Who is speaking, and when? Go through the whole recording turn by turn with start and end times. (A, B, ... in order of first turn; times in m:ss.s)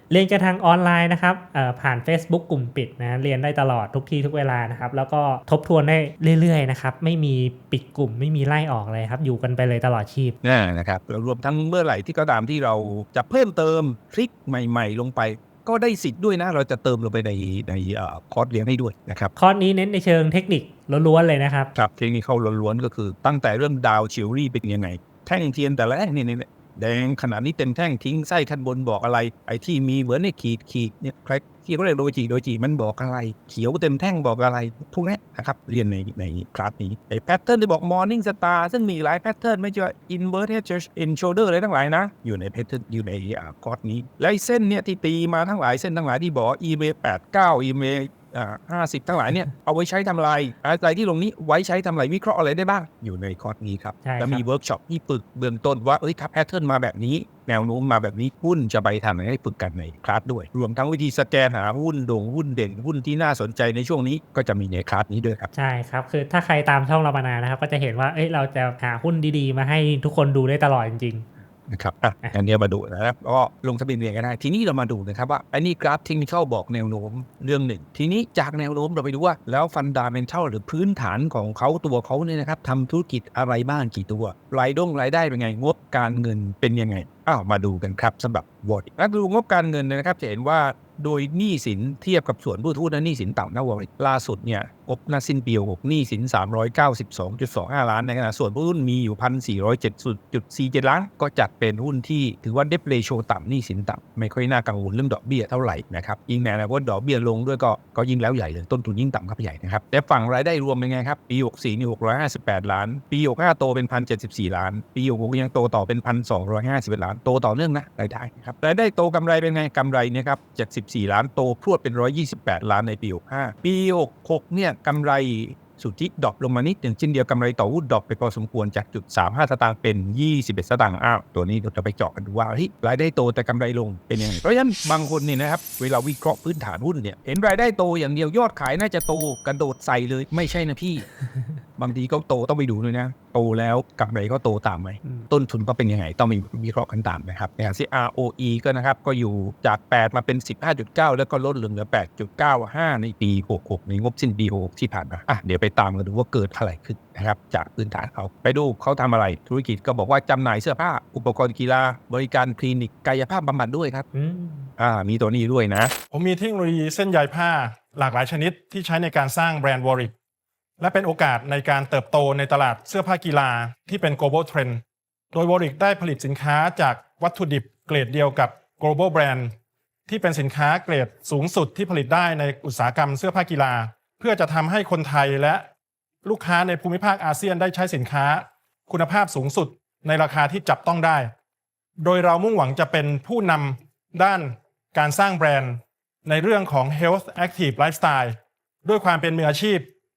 0:00.1-0:10.4 A
0:10.4-0:19.3 B
0:19.4-0:21.7 A
0:21.8-1:05.5 B
0:54.0-0:54.4 A
1:05.5-1:11.3 A
1:11.7-2:21.1 B
2:21.8-2:44.0 B
2:44.1-2:44.7 A
2:44.8-2:45.9 B
2:46.1-2:50.1 C
2:50.8-2:54.8 C
2:55.3-2:59.5 C
3:00.1-3:05.7 C
3:06.2-3:11.3 C
3:12.0-3:19.9 C